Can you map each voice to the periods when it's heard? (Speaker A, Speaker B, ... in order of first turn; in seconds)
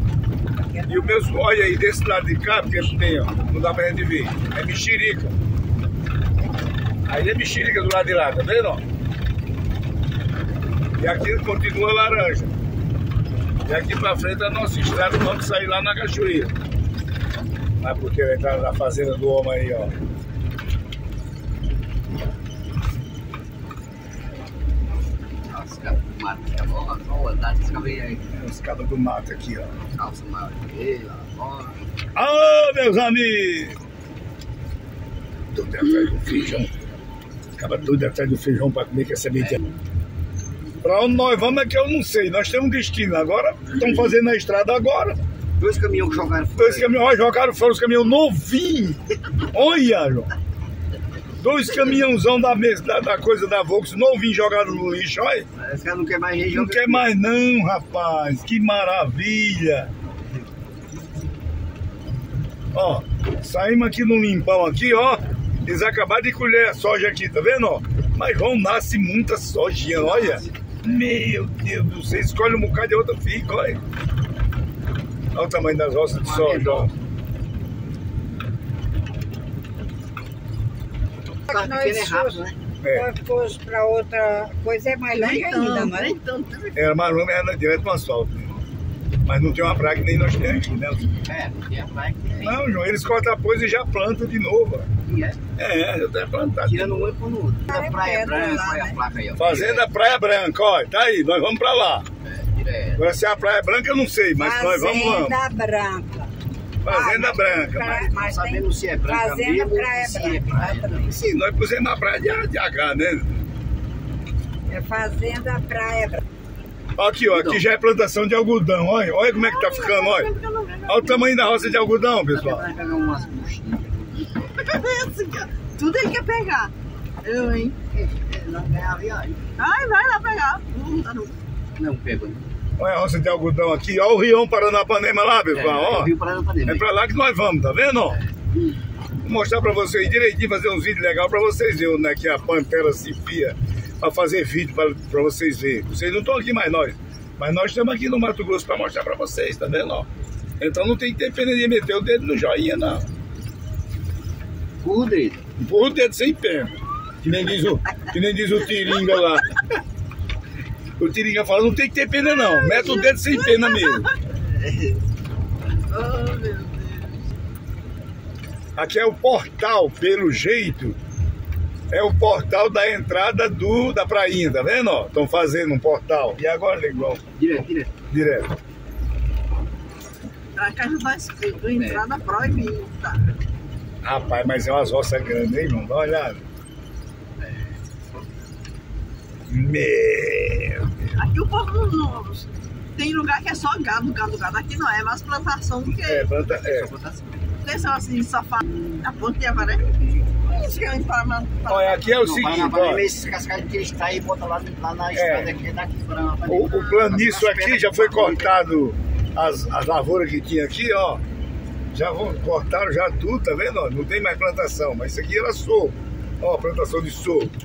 Speaker A: 0.5-1.3, 81.5-86.2, 97.7-99.0, 104.4-106.3, 106.8-111.2, 114.7-116.2, 198.7-199.0
Speaker B: 0.9-5.3, 7.1-8.8, 11.0-12.5, 13.7-16.5, 17.8-19.9, 28.3-29.7, 32.1-33.8, 35.5-36.7, 37.6-39.6, 40.8-45.2, 46.6-50.3, 51.4-55.5, 56.5-59.9, 62.7-73.8, 75.3-76.9, 82.8-83.1, 86.7-88.5, 89.2-91.2, 92.4-94.9, 95.6-97.0, 99.3-102.0, 103.0-105.4, 106.8-108.1, 111.1-113.4, 117.0-120.3, 120.9-122.7, 132.8-136.1, 136.7-138.2, 139.2-150.1, 150.6-153.0, 155.6-159.5, 161.0-164.1, 168.8-171.0, 171.9-177.2, 178.1-178.5, 184.0-186.4, 189.5-190.9, 196.0-196.9, 201.7-203.1, 205.1-205.5, 206.5-211.2, 211.9-217.5
Speaker C: 25.5-28.2, 29.9-31.8, 39.4-39.6, 45.6-46.9, 55.6-57.1, 69.9-70.7, 76.2-76.9, 81.5-82.5, 91.2-92.6, 95.0-95.4, 96.6-99.9, 102.2-103.1, 108.0-111.2, 117.3-117.6, 122.3-124.4, 127.9-129.5, 131.8-132.5, 135.5-136.9, 154.8-155.4, 164.6-165.0, 177.3-178.0, 181.8-182.0, 187.4-187.7, 196.4-197.4, 202.2-208.6
Speaker D: 85.2-86.8, 119.3-121.7, 124.6-127.8, 129.6-131.4, 162.3-164.1, 165.9-167.2, 180.5-183.2, 191.2-196.3, 197.6-199.9, 200.4-202.2